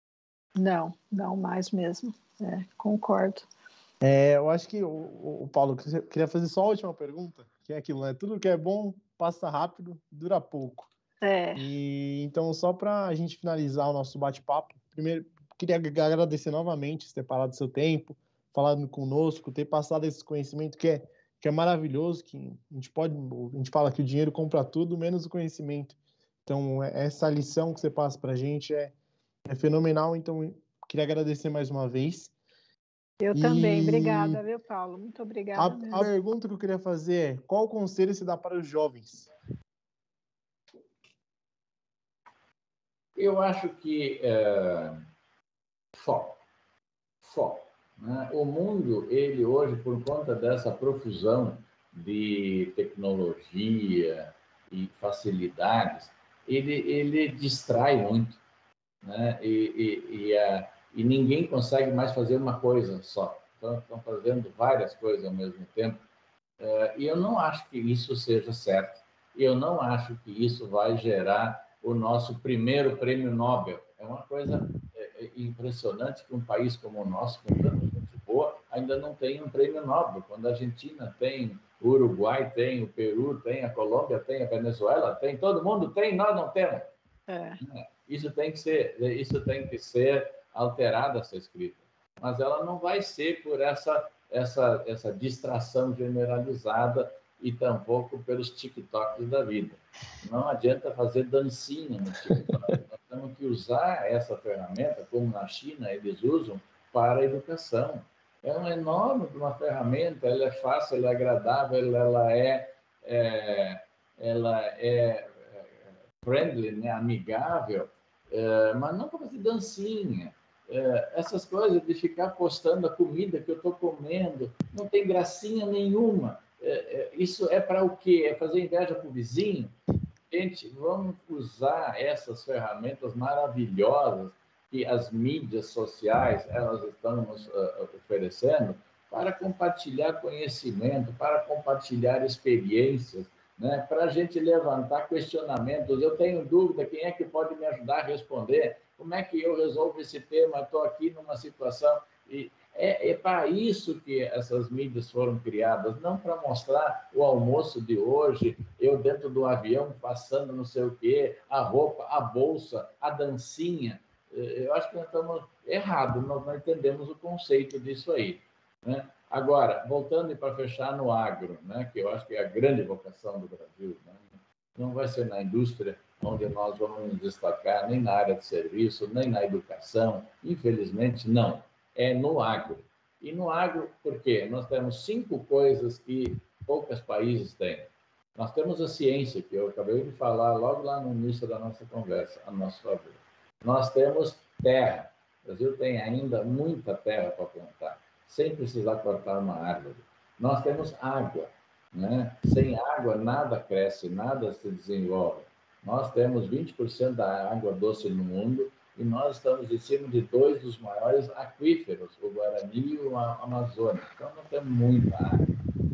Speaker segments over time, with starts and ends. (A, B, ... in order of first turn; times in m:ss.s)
0:00.6-0:03.5 A
0:04.0-0:10.9 B
0:11.2-0:11.6 A
0:11.6-0:28.9 B
0:29.4-0:32.3 B
0:33.2-0:36.1 A
0:33.3-0:34.4 B
0:35.5-0:39.3 B
0:43.2-0:45.0 C
0:45.9-0:46.4 C
0:47.2-0:58.4 C
0:59.0-1:06.0 C
1:06.6-1:26.9 C
1:27.3-1:27.6 A
1:27.6-2:09.7 C
1:42.3-1:42.7 B
2:10.3-2:54.2 C
2:54.8-3:35.5 C